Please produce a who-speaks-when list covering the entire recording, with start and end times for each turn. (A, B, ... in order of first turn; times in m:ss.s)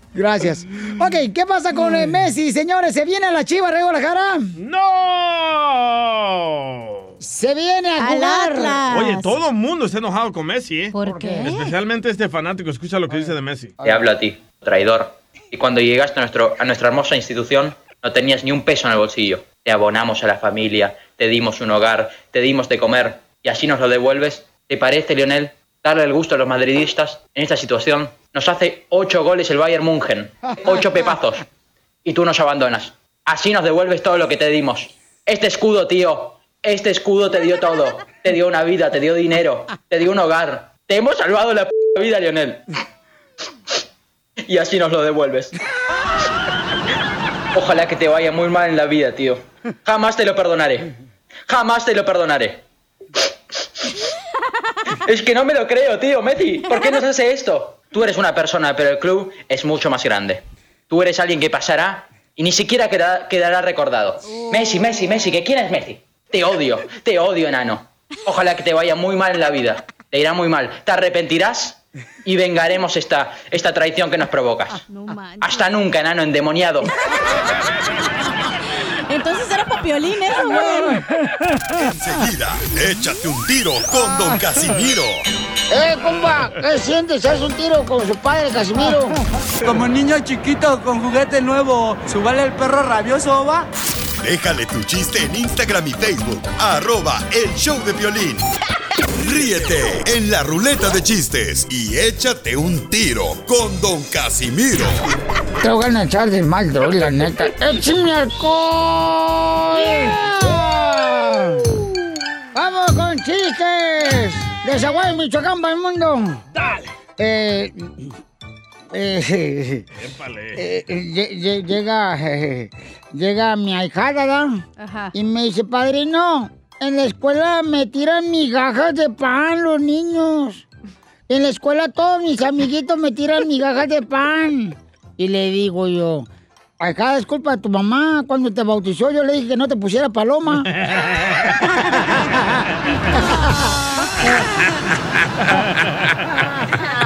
0:00.1-0:04.5 A
0:04.6-0:07.2 B
0:07.2-0:08.8 A
0:08.0-0:09.4 C
0:08.9-0:13.8 B
0:10.9-0:11.7 C
0:11.0-0:11.5 A
0:13.8-0:31.4 D
0:32.0-0:42.6 D
0:44.5-0:45.5 D
0:47.5-0:50.9 D
0:51.5-0:52.6 D
0:55.0-1:14.8 D
0:56.7-0:57.0 C
1:04.3-1:04.8 C
1:14.9-1:15.7 C
1:15.4-1:16.9 D
1:18.7-1:21.0 C
1:21.8-1:25.2 E
1:25.7-1:29.2 A
1:29.6-1:33.7 F
1:34.2-1:38.4 E
1:39.2-1:45.0 E
1:45.6-1:51.8 A
1:52.5-1:56.4 A
1:56.5-1:56.9 B
1:57.2-1:58.1 A
1:58.9-1:59.9 A
2:00.0-2:00.7 B
2:00.6-2:04.6 A
2:04.8-2:05.1 C
2:05.1-2:10.6 A
2:11.3-2:16.3 A
2:16.8-2:20.7 A
2:20.6-2:21.7 B
2:25.4-2:26.7 B